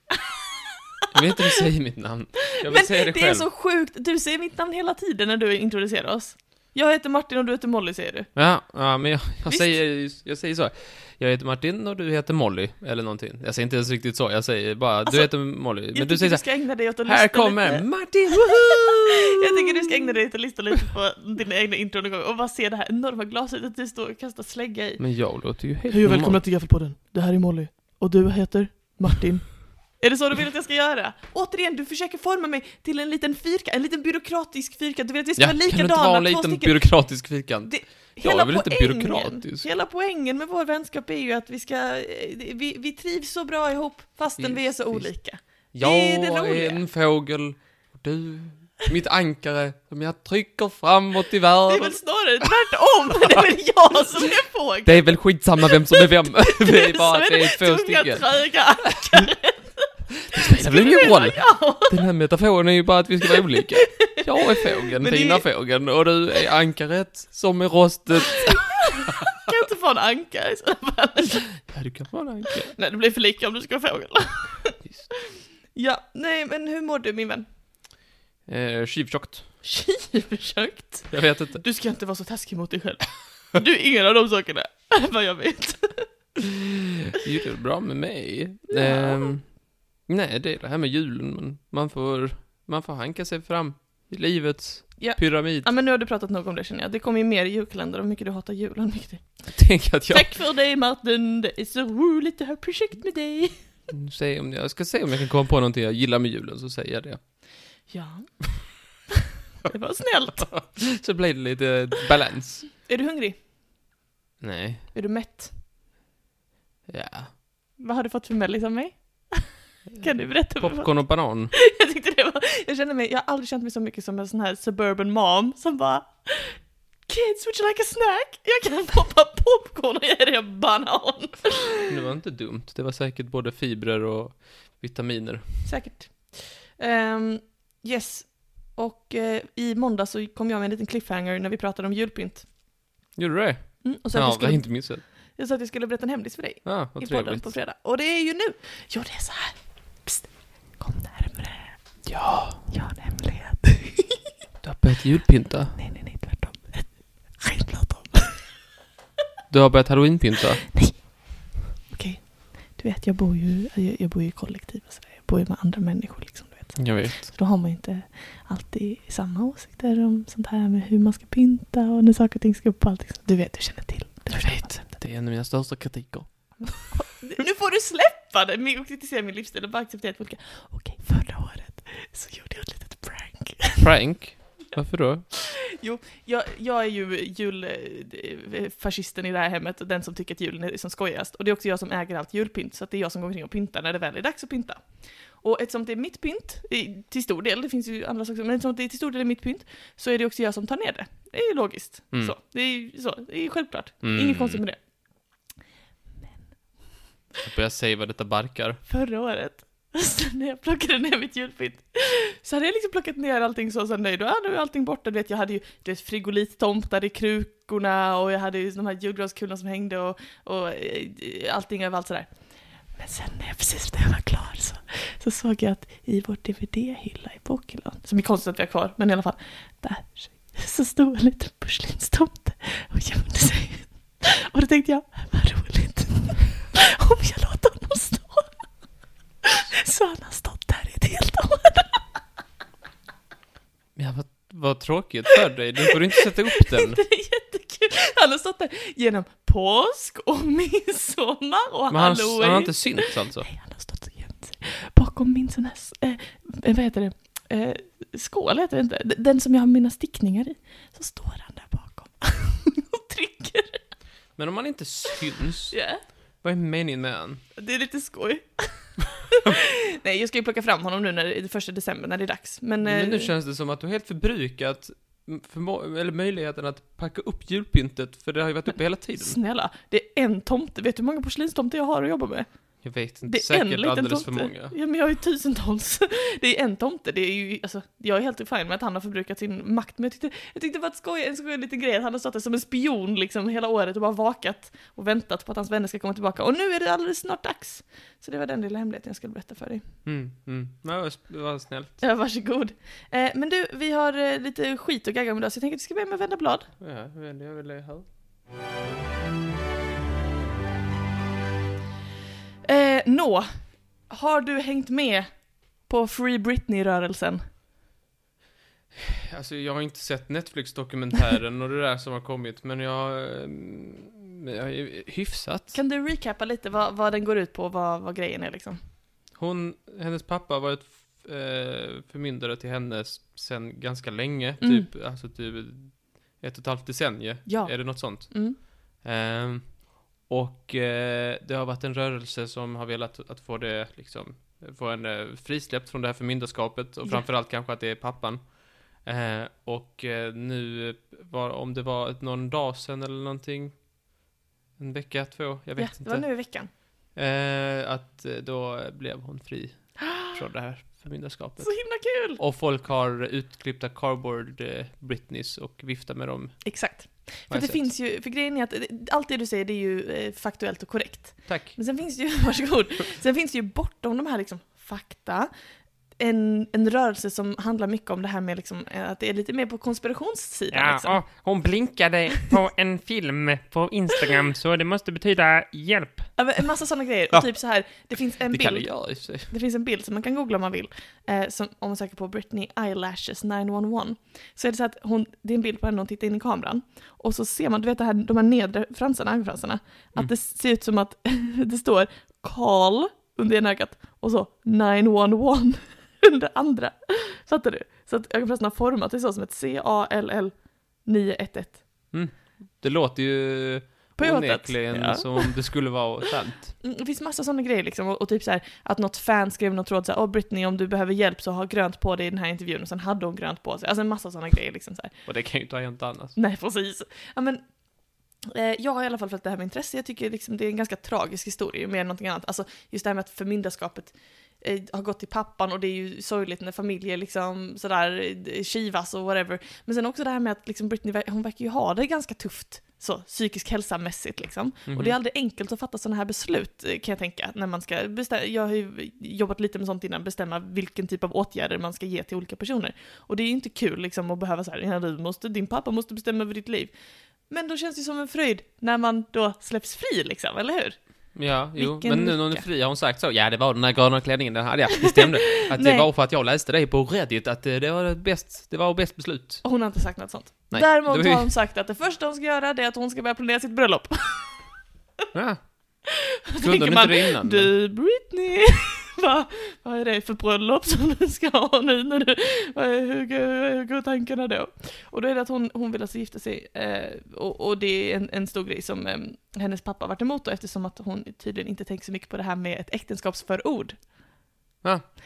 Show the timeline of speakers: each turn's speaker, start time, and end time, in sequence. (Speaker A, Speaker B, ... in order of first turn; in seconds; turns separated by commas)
Speaker A: 1.0-1.6, Speaker B: 1.1-3.5, Speaker A: 2.5-8.3, Speaker B: 8.3-19.2, Speaker A: 9.5-9.7, Speaker A: 15.1-46.8, Speaker B: 25.0-26.4, Speaker B: 35.4-39.7, Speaker B: 44.4-45.1, Speaker B: 45.7-52.4, Speaker A: 51.7-62.0, Speaker B: 54.8-58.7, Speaker B: 60.4-68.8, Speaker A: 64.0-65.7, Speaker A: 68.4-71.6, Speaker B: 71.6-72.7, Speaker A: 72.6-74.9, Speaker A: 75.7-77.5, Speaker B: 78.5-79.5, Speaker A: 79.6-86.1, Speaker B: 81.1-81.6, Speaker B: 86.4-95.7, Speaker A: 88.7-89.3, Speaker A: 95.0-103.7, Speaker B: 99.5-100.3, Speaker B: 103.9-107.2, Speaker A: 107.9-109.1, Speaker A: 109.6-110.6, Speaker B: 110.4-112.7, Speaker A: 112.8-113.4, Speaker B: 114.4-114.9, Speaker A: 114.9-115.5, Speaker B: 116.9-117.3, Speaker A: 117.8-131.9, Speaker B: 120.5-121.5, Speaker B: 131.9-135.7, Speaker A: 135.6-142.5, Speaker B: 143.2-145.0, Speaker A: 143.8-152.0, Speaker B: 146.6-147.5, Speaker B: 152.1-152.6, Speaker A: 152.7-154.2, Speaker B: 154.6-155.8, Speaker A: 155.8-158.4, Speaker B: 159.5-160.7, Speaker A: 160.7-161.3, Speaker A: 161.9-174.9, Speaker B: 166.8-167.3, Speaker B: 174.3-176.9, Speaker A: 176.7-183.9, Speaker B: 183.8-185.2, Speaker A: 185.3-204.8, Speaker B: 204.0-204.6, Speaker B: 207.4-208.8, Speaker A: 208.8-222.3, Speaker A: 222.9-238.7, Speaker A: 239.4-242.1, Speaker B: 243.9-247.0, Speaker A: 246.5-263.8, Speaker B: 251.9-253.5, Speaker B: 264.4-265.8, Speaker A: 265.7-266.0, Speaker B: 266.4-267.4, Speaker A: 267.6-273.3, Speaker B: 272.8-279.4, Speaker A: 279.1-282.5, Speaker B: 282.8-284.8, Speaker A: 283.2-299.8, Speaker B: 300.0-302.0, Speaker A: 302.0-306.7, Speaker B: 306.8-308.1, Speaker A: 312.6-313.5, Speaker A: 314.0-317.4, Speaker B: 318.9-325.8, Speaker A: 325.7-328.8, Speaker B: 329.3-353.8, Speaker A: 334.6-334.9, Speaker A: 337.4-338.6, Speaker B: 354.8-356.4, Speaker A: 355.8-356.7, Speaker B: 357.1-366.8, Speaker A: 360.0-360.4, Speaker A: 361.6-362.4, Speaker A: 366.6-375.5, Speaker B: 367.5-367.9, Speaker B: 371.5-371.8, Speaker A: 376.2-381.2, Speaker C: 380.7-386.3, Speaker A: 386.4-411.8, Speaker B: 388.5-389.5, Speaker B: 412.1-416.8, Speaker A: 414.2-415.6, Speaker A: 416.8-425.1, Speaker B: 425.2-426.4, Speaker A: 426.4-427.6, Speaker A: 428.4-456.9, Speaker B: 444.9-445.1, Speaker A: 457.5-462.6, Speaker B: 461.3-469.8, Speaker A: 465.1-466.1, Speaker A: 469.6-474.6, Speaker B: 470.7-471.5, Speaker B: 475.3-476.0, Speaker A: 476.1-494.0, Speaker B: 476.6-477.7